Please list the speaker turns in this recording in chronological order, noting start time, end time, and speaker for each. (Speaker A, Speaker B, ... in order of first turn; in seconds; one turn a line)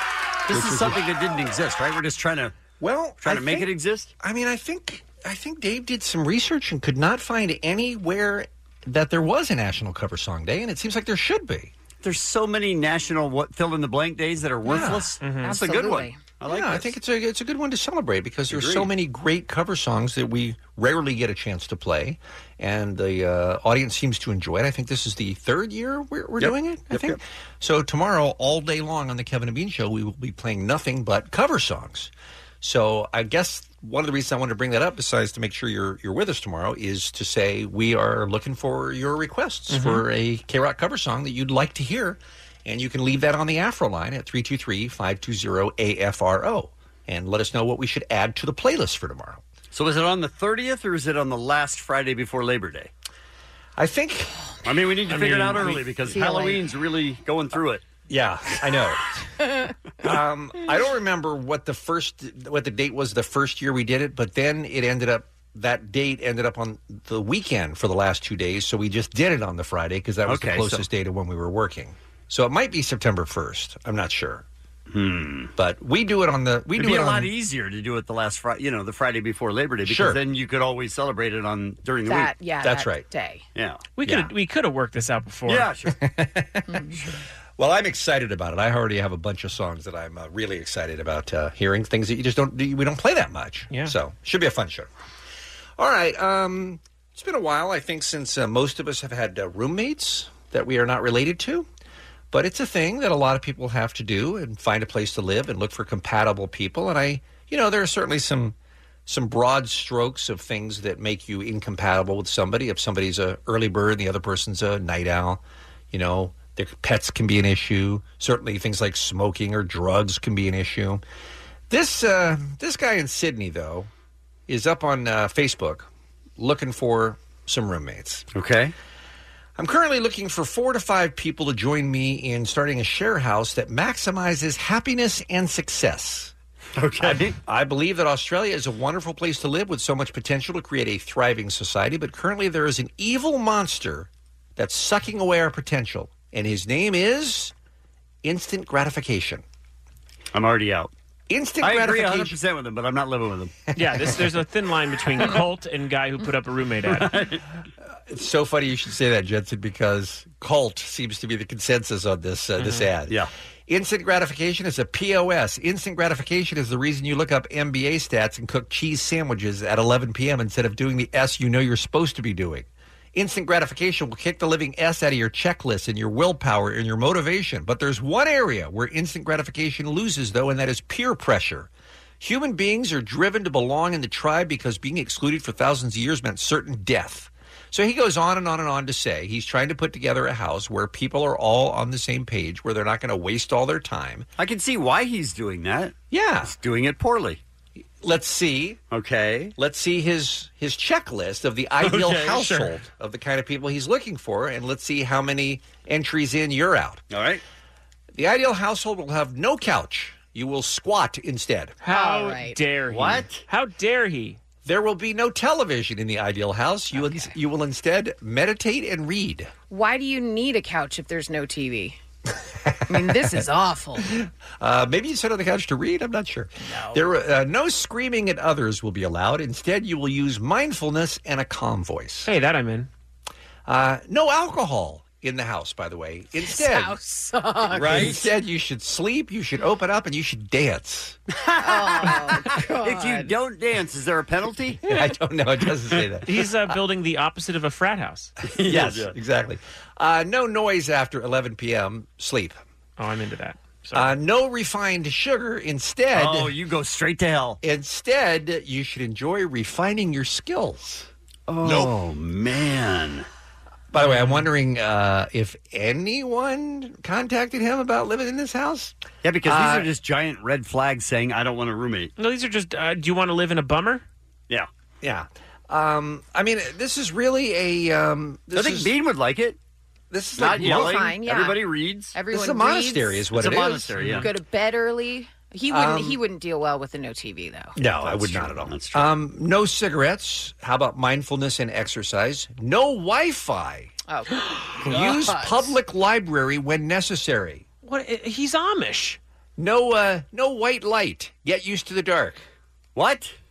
Speaker A: 0.5-2.5
Speaker B: 0.5-1.0
Speaker B: 2.8-11.7
Speaker A: 3.2-4.1
Speaker A: 12.0-16.9
Speaker B: 14.6-15.2
Speaker C: 14.7-16.2
Speaker D: 15.2-15.5
Speaker B: 16.5-49.4
Speaker A: 18.5-18.9
Speaker A: 26.4-27.2
Speaker D: 39.7-40.0
Speaker A: 49.7-52.9
Speaker B: 53.8-54.3
Speaker A: 54.6-57.8
Speaker D: 55.1-56.2
Speaker C: 56.1-56.6
Speaker B: 58.1-59.0
Speaker B: 60.0-74.4
Speaker A: 70.3-70.8
Speaker A: 74.9-75.5
Speaker B: 75.5-77.3
Speaker A: 76.8-82.3
Speaker B: 79.8-80.2
Speaker C: 82.1-83.4
Speaker B: 82.6-83.0
Speaker A: 83.5-83.8
Speaker D: 84.0-85.7
Speaker B: 84.0-84.3
Speaker A: 85.5-86.0
Speaker B: 86.0-86.8
Speaker B: 87.6-94.9
Speaker B: 95.8-101.7
Speaker B: 102.3-121.0
Speaker B: 121.7-123.9
Speaker B: 124.5-128.2
Speaker A: 128.3-128.7
Speaker B: 129.6-136.3
Speaker A: 136.8-137.3
Speaker B: 137.0-147.5
Speaker B: 148.2-149.4
Speaker A: 150.3-150.9
Speaker B: 151.3-152.4
Speaker A: 151.6-153.5
Speaker D: 153.8-157.2
Speaker B: 153.8-154.2
Speaker A: 156.9-157.4
Speaker B: 158.1-194.3
Speaker D: 162.6-162.9
Speaker A: 194.4-197.4
Speaker B: 196.1-196.5
Speaker B: 198.0-198.8
Speaker A: 198.9-199.5
Speaker B: 199.6-207.0
Speaker A: 201.8-202.7
Speaker A: 207.1-207.4
Speaker B: 208.1-211.7
Speaker D: 211.8-214.4
Speaker C: 211.9-212.6
Speaker A: 212.9-213.4
Speaker B: 214.6-219.5
Speaker C: 217.0-217.3
Speaker C: 219.7-222.0
Speaker B: 222.7-223.3
Speaker C: 222.9-224.1
Speaker B: 224.1-232.3
Speaker C: 226.7-227.0
Speaker D: 232.2-232.9
Speaker B: 233.7-237.0
Speaker C: 236.4-238.2
Speaker B: 237.7-241.2
Speaker A: 237.8-238.2
Speaker A: 241.5-244.8
Speaker C: 241.6-243.3
Speaker B: 244.8-246.4
Speaker D: 246.2-248.3
Speaker A: 248.5-249.1
Speaker B: 248.6-252.6
Speaker D: 253.0-254.2
Speaker B: 253.9-256.5
Speaker A: 256.1-257.6
Speaker B: 257.6-261.1
Speaker A: 261.5-263.3
Speaker B: 263.9-269.9
Speaker D: 264.0-264.4
Speaker A: 269.2-272.1
Speaker D: 272.2-274.0
Speaker B: 275.0-278.9
Speaker A: 278.5-279.6
Speaker B: 280.1-281.0
Speaker A: 280.4-282.1
Speaker C: 280.4-283.5
Speaker B: 282.3-283.9
Speaker A: 283.3-284.3
Speaker D: 284.0-284.3
Speaker C: 284.2-287.8
Speaker B: 285.7-286.2
Speaker B: 287.8-293.9
Speaker A: 288.0-289.1
Speaker C: 294.1-295.7
Speaker B: 294.8-297.6
Speaker D: 297.8-299.2
Speaker B: 299.6-302.4
Speaker A: 302.9-303.3